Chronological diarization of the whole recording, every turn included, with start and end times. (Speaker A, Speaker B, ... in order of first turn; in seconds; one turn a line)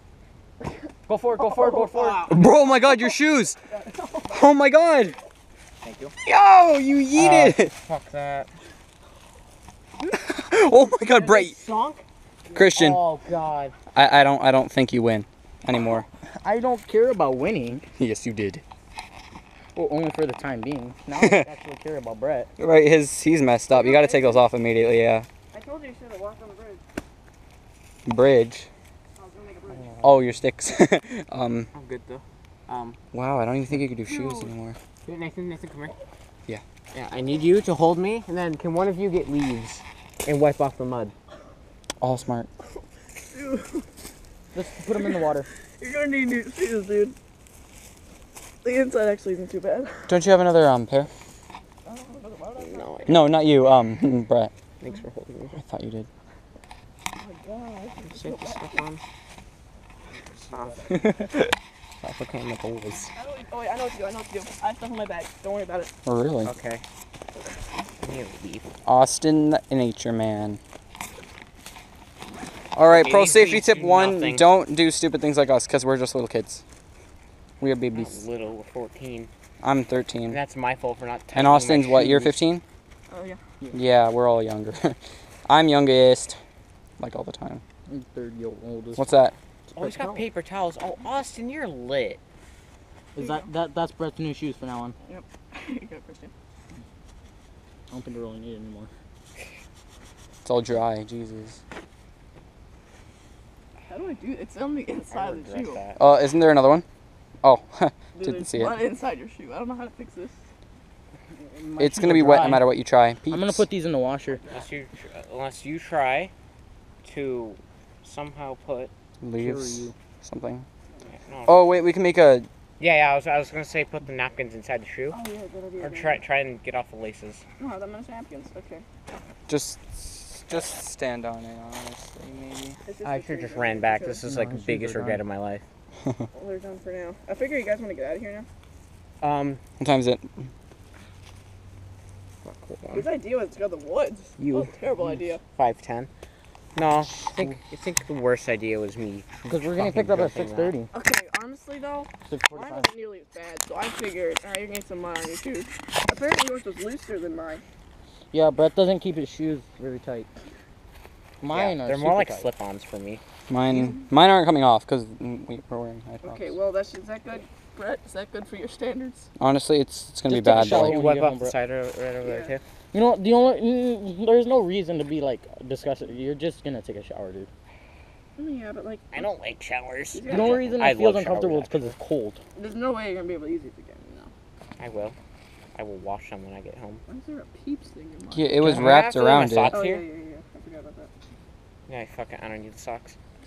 Speaker A: 1.1-3.6
Speaker B: 1.4-1.9
Speaker C: 1.9-2.6
Speaker B: 2.8-3.1
Speaker B: 3.7-4.4
Speaker A: 4.3-5.2
Speaker C: 5.8-6.1
Speaker A: 6.2-7.7
Speaker C: 7.1-8.5
Speaker A: 10.0-11.6
Speaker C: 11.0-13.8
Speaker A: 12.5-13.0
Speaker A: 13.9-16.1
Speaker D: 16.3-17.8
Speaker A: 18.0-18.6
Speaker D: 19.8-22.5
Speaker A: 21.2-21.4
Speaker A: 22.6-25.3
Speaker B: 23.7-24.5
Speaker B: 25.5-26.8
Speaker A: 28.1-28.7
Speaker B: 29.2-29.9
Speaker D: 29.9-30.2
Speaker A: 30.0-31.7
Speaker C: 31.7-33.0
Speaker A: 33.1-34.8
Speaker B: 34.1-34.5
Speaker C: 35.0-35.9
Speaker C: 36.9-41.1
Speaker A: 42.0-42.5
Speaker B: 43.2-43.9
Speaker D: 44.5-45.5
Speaker B: 45.0-45.2
Speaker B: 45.8-47.1
Speaker B: 48.6-50.2
Speaker A: 50.1-51.1
Speaker B: 51.9-53.4
Speaker C: 52.6-53.3
Speaker A: 53.1-54.5
Speaker C: 54.8-55.6
Speaker A: 55.5-56.1
Speaker B: 57.2-58.9
Speaker C: 58.0-59.0
Speaker C: 60.5-61.0
Speaker C: 62.0-63.1
Speaker B: 63.1-65.9
Speaker A: 66.0-66.5
Speaker C: 66.4-66.8
Speaker C: 68.0-68.7
Speaker A: 68.8-70.6
Speaker A: 72.8-76.6
Speaker C: 72.9-74.5
Speaker A: 77.6-78.2
Speaker C: 77.9-79.3
Speaker A: 79.6-80.4
Speaker C: 80.3-82.3
Speaker A: 81.3-82.6
Speaker B: 83.1-83.4
Speaker A: 83.7-86.4
Speaker A: 87.0-87.6
Speaker D: 87.9-89.1
Speaker A: 89.0-89.3
Speaker C: 89.7-92.2
Speaker D: 89.8-90.3
Speaker D: 93.2-95.0
Speaker B: 93.2-93.5
Speaker B: 95.0-96.3
Speaker D: 97.9-98.9
Speaker A: 100.5-101.6
Speaker B: 103.9-105.8
Speaker C: 105.1-106.0
Speaker A: 106.0-106.8
Speaker A: 107.4-108.7
Speaker B: 108.2-110.4
Speaker D: 111.4-112.7
Speaker A: 111.8-113.7
Speaker D: 113.3-114.5
Speaker C: 114.5-116.3
Speaker C: 117.0-118.9
Speaker A: 119.2-120.7
Speaker D: 119.4-119.9
Speaker C: 121.0-121.7
Speaker A: 121.5-122.5
Speaker C: 122.8-125.2
Speaker B: 125.1-126.2
Speaker C: 125.8-127.4
Speaker B: 127.6-128.8
Speaker A: 129.5-132.8
Speaker B: 132.8-134.2
Speaker C: 133.0-135.7
Speaker D: 134.2-135.2
Speaker B: 136.3-138.5
Speaker C: 139.2-139.6
Speaker A: 139.8-140.5
Speaker C: 142.4-143.1
Speaker B: 142.9-145.4
Speaker C: 144.4-144.7
Speaker C: 145.5-146.1
Speaker C: 146.8-150.8
Speaker D: 149.4-150.9
Speaker A: 149.8-150.4
Speaker B: 150.9-157.6
Speaker D: 152.3-152.9
Speaker D: 158.3-160.3
Speaker D: 161.4-162.5
Speaker C: 161.5-163.2
Speaker A: 163.5-166.6
Speaker B: 163.7-164.0
Speaker B: 166.2-169.3
Speaker A: 169.4-171.0
Speaker D: 170.3-171.5
Speaker C: 170.5-172.6
Speaker B: 172.2-172.5
Speaker D: 172.9-177.5
Speaker B: 178.4-179.2
Speaker C: 179.1-182.0
Speaker B: 180.1-180.7
Speaker D: 180.3-182.4
Speaker B: 182.6-184.3
Speaker C: 184.8-185.2
Speaker C: 185.8-187.0
Speaker B: 187.1-188.7
Speaker A: 188.3-189.8
Speaker D: 188.6-189.0
Speaker C: 188.7-190.1
Speaker B: 189.3-191.1
Speaker C: 191.9-193.2